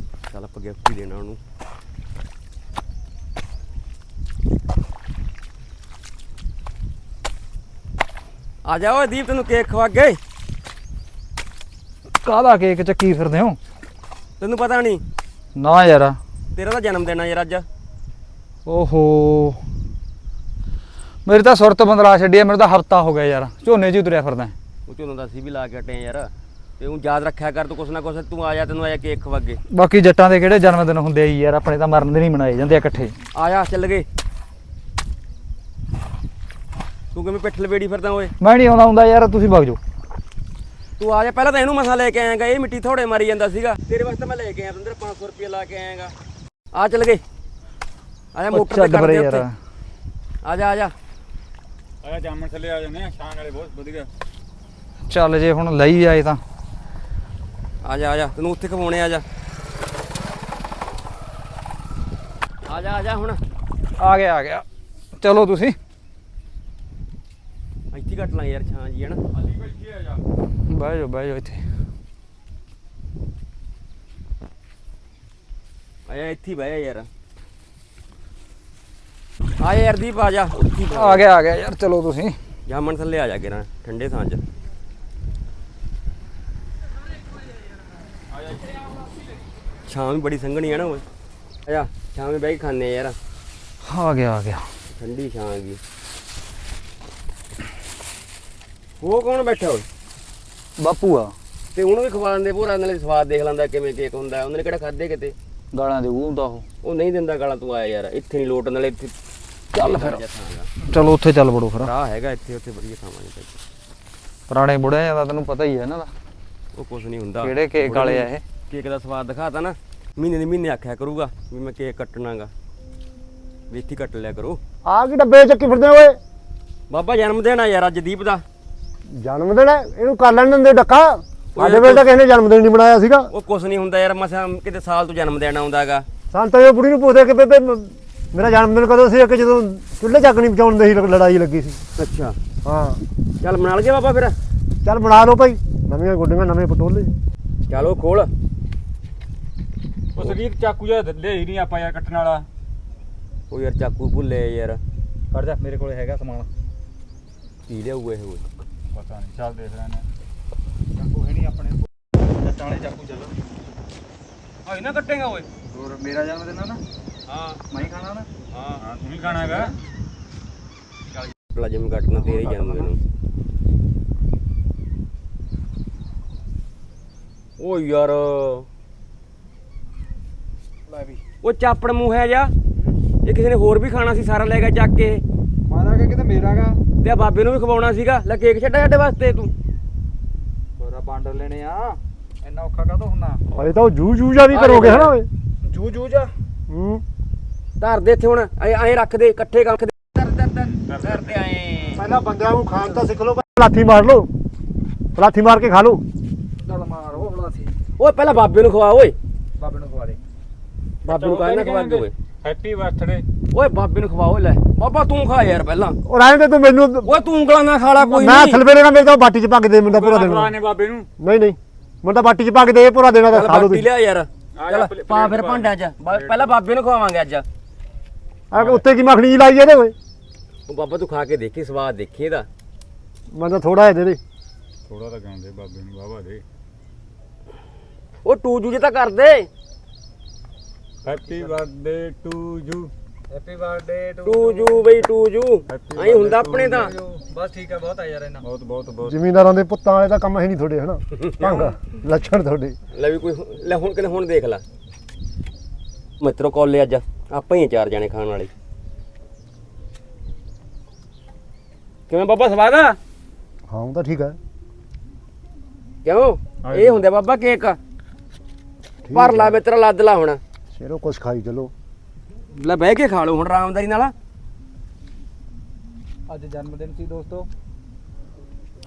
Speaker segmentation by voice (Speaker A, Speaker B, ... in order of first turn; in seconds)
Speaker A: 0.3-1.4, 8.7-10.2, 14.4-15.0, 16.5-17.7, 24.9-29.6, 33.3-34.1, 37.1-38.3, 41.0-46.1, 46.7-47.2, 48.4-49.5, 50.4-50.9, 57.8-59.2, 62.7-63.4, 67.9-69.3, 76.1-77.1, 79.6-81.3, 82.7-84.4, 89.9-91.0, 91.7-93.2, 94.9-95.8, 99.0-99.9, 101.7-105.4, 106.8-109.1, 109.7-110.7, 111.8-113.6, 116.8-122.5, 123.7-124.6, 126.9-128.4, 131.6-132.1, 133.3-136.1, 142.0-142.4, 143.4-144.4, 147.7-148.3, 153.5-154.8, 157.7-158.4, 164.7-165.5, 167.3-167.6, 168.5-168.8, 169.3-169.6, 171.1-173.0, 177.6-178.7, 181.4-182.5, 183.2-185.2, 187.0-189.5, 194.5-195.2, 197.8-202.1, 208.0-209.2, 211.0-212.1, 213.5-216.0, 217.0-218.6, 223.3-227.4, 230.7-232.5, 238.2-239.5, 244.2-246.9, 251.2-251.7, 252.9-254.6, 256.2-258.5, 262.1-263.0, 266.1-267.8, 269.1-270.4, 272.5-274.1
Speaker B: 12.2-13.6, 15.6-16.2, 18.7-19.6, 21.3-24.5, 29.7-33.1, 38.4-39.8, 48.5-49.5, 55.0-56.4, 64.0-65.8, 70.7-71.6, 80.9-82.4, 93.8-94.6, 100.8-101.3, 105.7-106.7, 109.8-110.2, 110.8-111.9, 114.5-116.1, 117.4-118.4, 155.3-156.5, 161.0-163.3, 165.7-166.8, 167.7-168.3, 172.3-172.8, 180.9-181.2, 185.7-186.8, 190.8-193.4, 195.7-196.3, 206.6-207.8, 209.6-210.2, 241.2-241.6, 243.3-244.9, 246.6-248.4, 276.3-277.5
Speaker C: 52.0-54.1, 150.2-152.5, 158.9-160.1, 168.8-169.8, 200.9-201.3, 211.1-213.2, 219.9-221.1, 224.6-226.5, 228.5-228.8, 234.9-236.4, 241.0-242.9, 245.7-246.8, 248.4-249.2, 266.7-267.0
Speaker D: 124.8-126.2, 129.1-133.3, 136.3-141.8, 142.6-143.0, 144.8-147.1, 193.5-195.3, 196.7-197.0, 201.9-204.3, 205.2-206.0, 216.1-217.1, 218.0-220.6, 221.2-223.8, 228.5-229.9, 233.3-234.2, 249.0-252.8, 263.7-264.4, 269.0-269.6, 270.7-271.7